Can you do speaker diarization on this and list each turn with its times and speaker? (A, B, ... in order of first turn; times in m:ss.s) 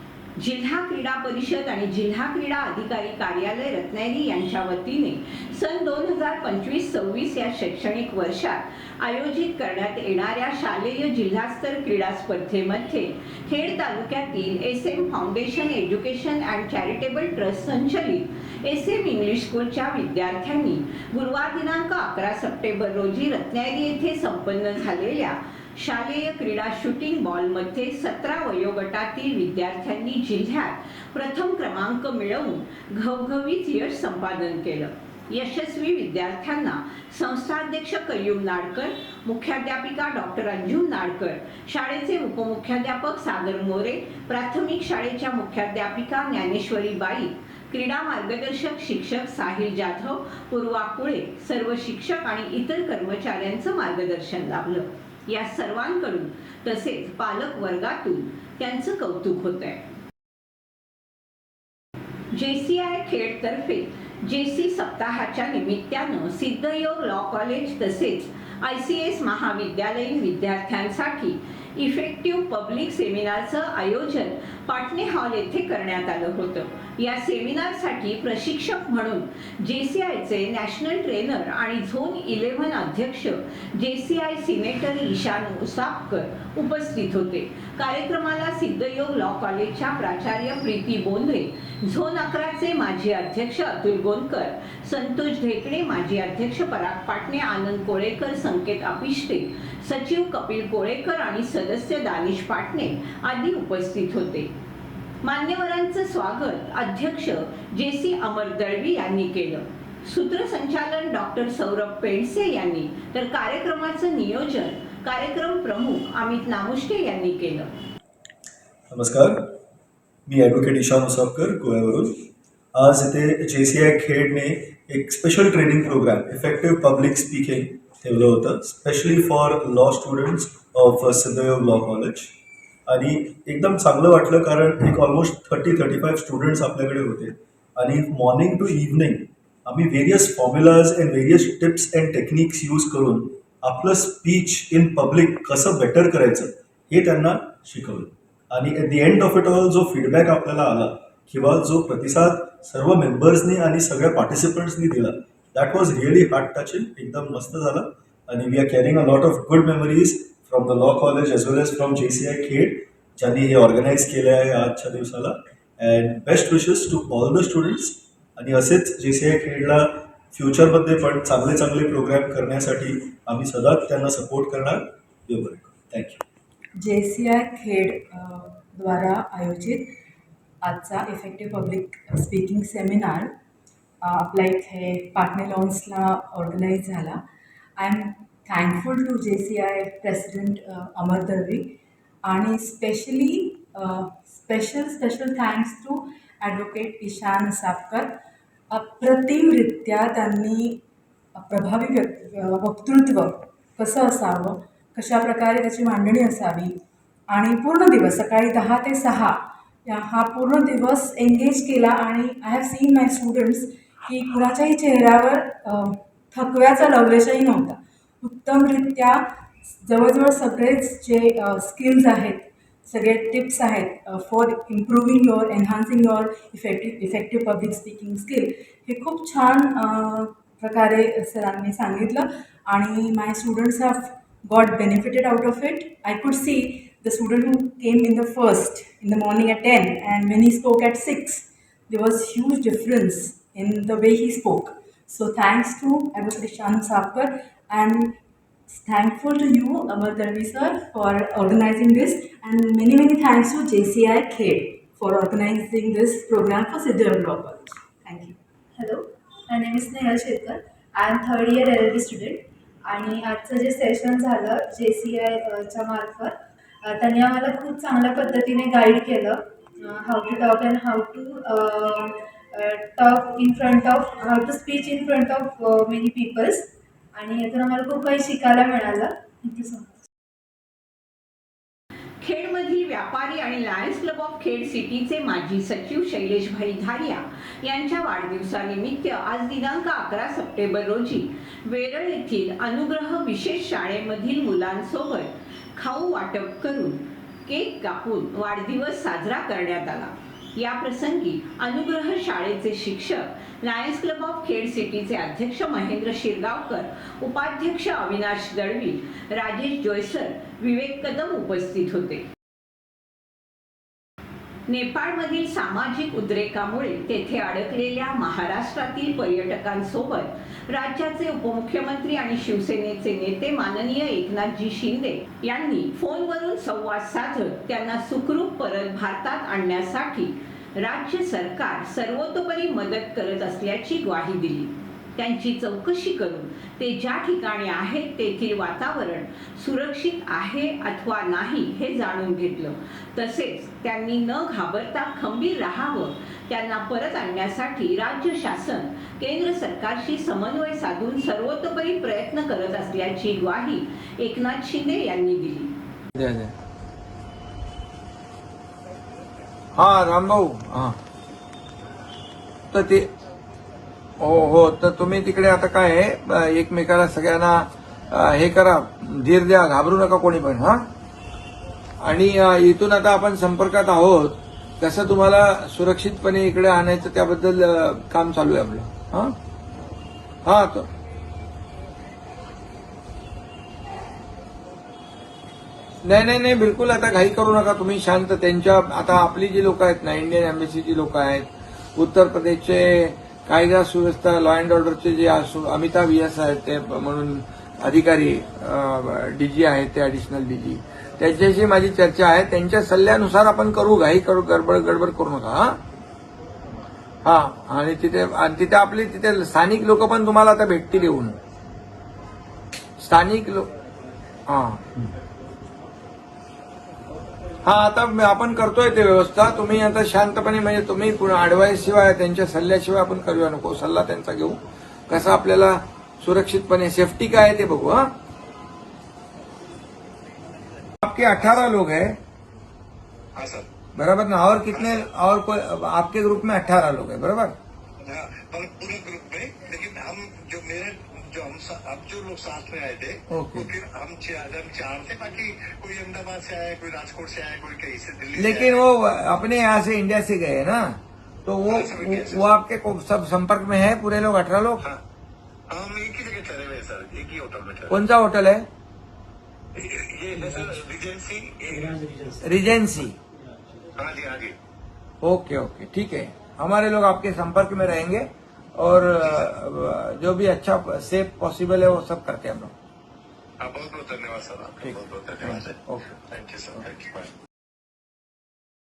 0:00.4-0:59.8 A
1:02.3-1:44.5 A
1:45.2-1:57.7 A
1:58.9-1:59.5 B
2:00.3-2:02.1 B
2:02.7-2:12.3 B
2:12.9-2:56.2 B
2:56.8-2:59.9 C
3:00.6-3:03.3 C
3:04.0-3:07.2 C
3:07.8-3:18.2 C
3:18.7-3:20.8 C
3:21.3-3:26.8 C
3:27.3-3:39.2 C
3:39.8-4:08.2 C
4:08.7-4:18.4 C
4:18.8-4:40.0 D
4:42.2-5:12.2 A
5:14.7-5:55.7 A
5:56.2-5:56.5 E
5:59.7-6:01.0 E
6:02.7-6:03.1 E
6:04.2-6:10.9 E
6:12.0-6:19.4 E
6:20.4-6:20.9 E
6:26.0-6:45.8 E
6:47.2-6:51.4 E
6:53.0-6:53.7 E
6:54.5-6:54.8 E
6:57.6-7:08.1 E
7:11.0-7:12.2 E
7:13.4-7:13.7 F
7:14.0-7:17.6 E
7:14.7-7:15.0 F
7:18.0-7:28.8 F
7:23.3-7:23.7 E
7:28.3-7:34.8 E
7:31.7-7:32.6 F
7:35.7-7:38.0 F
7:37.9-7:38.6 E
7:39.8-7:42.2 F
7:42.4-7:43.2 E
7:44.0-7:44.6 F
7:45.2-7:52.7 E
7:53.6-7:55.8 F
7:54.8-7:56.0 E
7:56.3-7:57.3 F